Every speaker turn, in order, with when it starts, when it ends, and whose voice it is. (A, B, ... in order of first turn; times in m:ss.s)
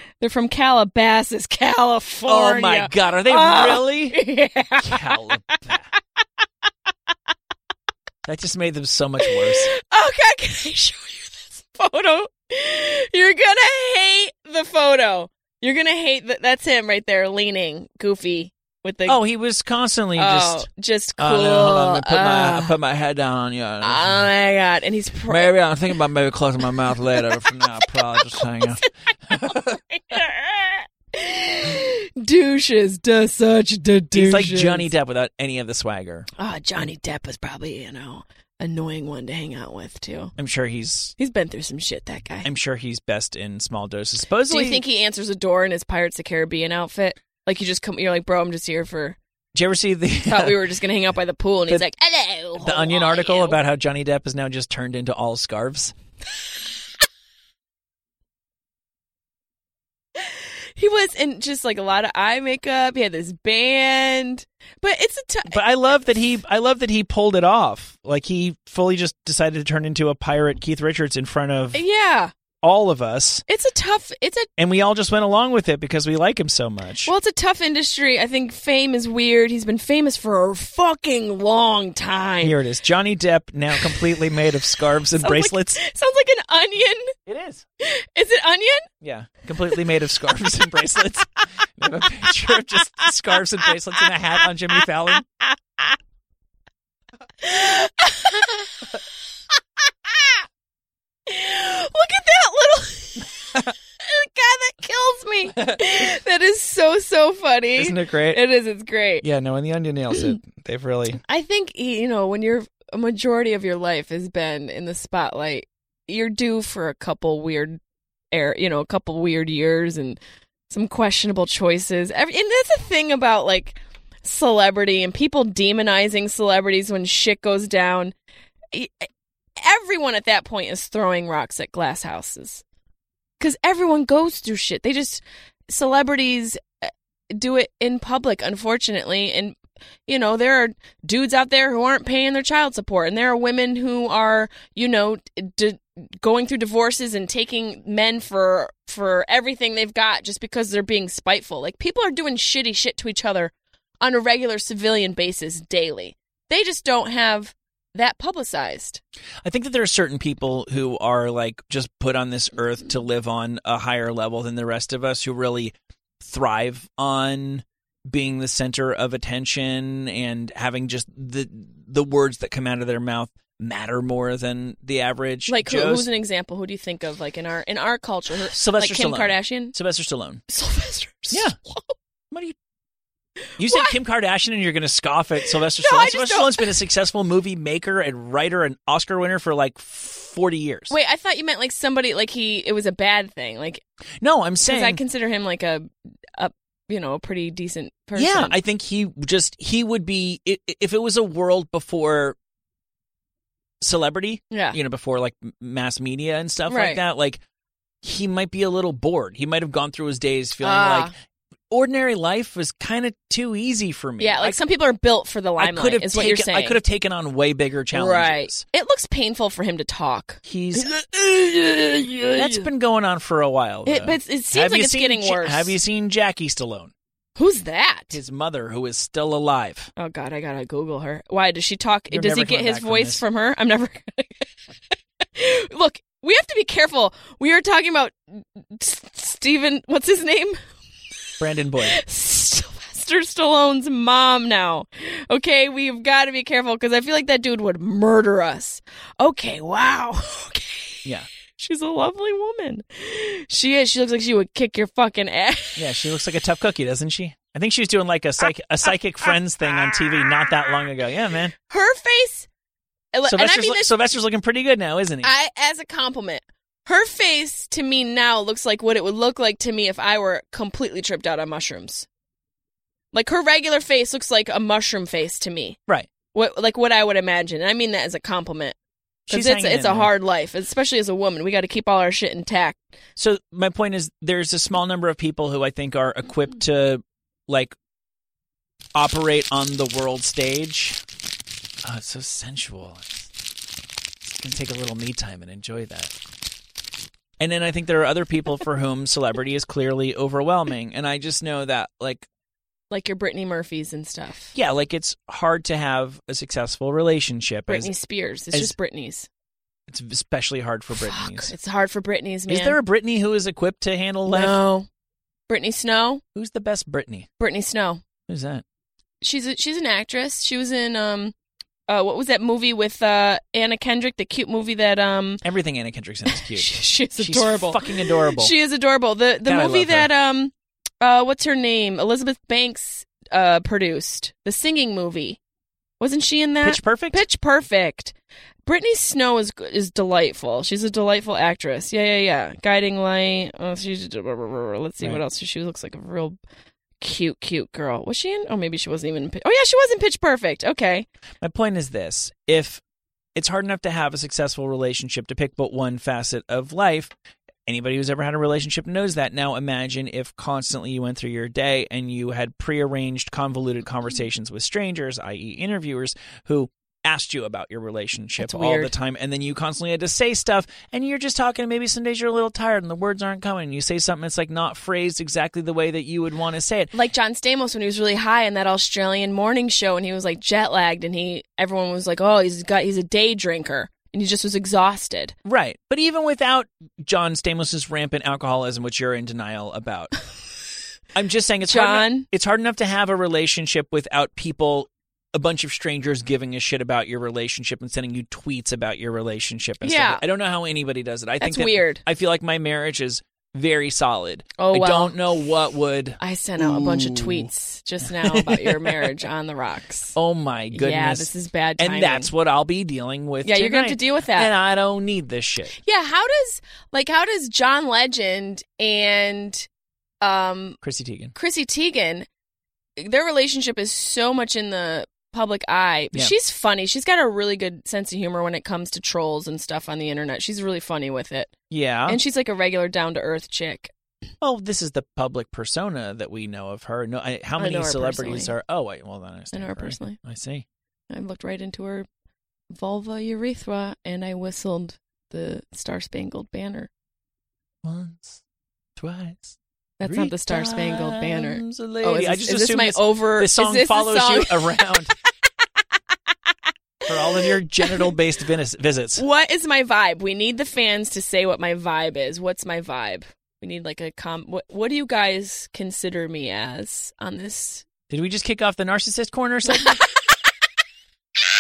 0:00.2-0:05.8 A
0:02.3-0:04.2 B
0:04.8-0:05.9 B
0:08.2-0:09.7 B
0:09.2-0:19.2 A
0:19.1-0:20.7 B
0:20.2-0:22.8 A
0:21.2-0:24.3 B
0:23.8-0:25.5 A
0:25.3-0:29.8 B
0:28.2-0:34.9 A
0:34.1-0:36.3 B
0:36.4-0:40.3 A
0:40.4-0:41.2 B
0:41.2-0:42.5 A
0:42.4-0:44.8 B
0:44.5-0:49.2 A
0:49.5-0:50.6 B
0:50.3-0:53.6 A
0:52.6-0:55.9 B
1:00.2-1:05.6 A
1:05.5-1:11.8 B
1:11.7-1:12.3 A
1:12.6-1:13.4 B
1:13.5-1:14.5 A
1:14.6-1:17.1 B
1:17.1-1:22.6 A
1:22.4-1:25.8 B
1:23.8-1:24.3 A
1:25.2-1:27.1 A
1:27.3-1:27.6 B
1:27.8-1:28.9 A
1:29.0-1:35.3 B
1:35.4-1:35.9 A
1:37.4-1:38.9 A
1:40.1-1:40.4 A
1:41.3-1:49.2 A
1:45.6-1:46.1 B
1:47.8-1:48.4 B
1:49.2-1:51.2 B
1:51.2-1:57.8 A
1:58.3-2:00.2 A
2:00.7-2:08.2 A
2:08.7-2:09.1 A
2:09.6-2:12.6 A
2:13.4-2:39.0 A
2:39.4-2:56.1 B
2:55.5-2:59.8 A
2:58.5-3:00.4 B
3:00.5-3:02.0 A
3:01.3-3:01.6 B
3:02.3-3:02.6 B
3:03.6-3:04.0 A
3:03.6-3:11.0 B
3:05.4-3:06.7 A
3:10.9-3:13.8 A
3:14.2-3:15.0 B
3:14.6-3:18.6 A
3:18.2-3:22.4 B
3:23.8-3:27.4 B
3:24.5-3:24.8 A
3:26.7-3:27.0 A
3:28.0-3:31.1 B
3:30.6-3:31.1 A
3:31.7-3:34.6 B
3:34.2-3:36.8 A
3:35.6-3:38.6 B
3:37.9-3:42.7 A
3:40.5-3:41.0 B
3:42.4-3:46.9 B
3:43.8-3:45.8 A
3:47.4-3:48.2 A
3:48.1-3:49.9 B
3:50.0-3:54.5 A
3:52.1-3:53.2 B
3:55.3-4:00.6 A
4:01.4-4:02.0 B
4:01.8-4:11.0 A
4:11.6-4:15.9 A
4:15.8-4:21.5 B
4:19.2-4:20.7 A
4:21.7-4:22.5 A
4:23.1-4:23.9 A
4:23.3-4:25.3 B
4:25.2-4:32.1 A
4:33.1-4:35.8 A
4:36.3-4:38.8 A
4:39.3-4:40.1 B
4:39.3-4:42.8 A
4:43.2-4:47.8 B
4:49.0-4:51.0 B
4:51.8-4:53.3 B
4:54.2-4:56.2 B
4:57.4-5:02.3 B
5:02.9-5:04.6 A
5:04.5-5:07.9 B
5:07.7-5:09.3 A
5:09.9-5:11.5 B
5:10.9-5:12.8 A
5:12.5-5:14.6 B
5:14.3-5:14.9 A
5:15.5-5:16.2 A
5:16.4-5:17.3 B
5:17.4-5:18.0 A
5:18.3-5:18.6 B
5:19.2-5:21.4 A
5:21.9-5:25.4 A
5:25.4-5:28.5 B
5:26.3-5:35.4 A
5:29.5-5:30.1 B
5:36.0-5:46.4 A
5:36.6-5:37.2 B
5:47.0-5:51.1 A
5:51.4-5:52.8 B
5:53.4-5:57.1 B
5:57.7-6:16.9 B
6:08.4-6:08.9 A
6:16.9-6:25.4 A
6:25.4-6:30.1 B
6:31.2-6:47.5 B
6:31.6-6:32.3 A
6:39.8-6:40.2 A
6:41.4-6:42.0 A
6:44.6-6:45.2 A
6:46.2-6:50.2 A
6:48.0-6:49.1 B
6:50.2-6:55.8 B
6:50.7-6:52.3 A
6:53.4-6:54.5 A
6:55.8-6:59.7 A
7:00.2-7:00.8 A
7:00.8-7:01.3 B
7:01.3-7:02.3 A
7:03.0-7:11.5 A
7:11.7-7:12.2 B
7:12.1-7:13.9 A
7:14.4-7:20.7 B
7:17.6-7:18.5 A
7:19.5-7:20.2 A
7:21.1-7:22.1 A
7:22.7-7:26.9 A
7:27.8-7:28.4 B
7:29.0-7:35.1 B
7:30.0-7:34.9 A
7:37.1-7:39.2 B
7:37.1-7:38.1 A
7:39.2-7:47.9 A
7:48.1-7:50.0 B
7:49.7-7:50.1 A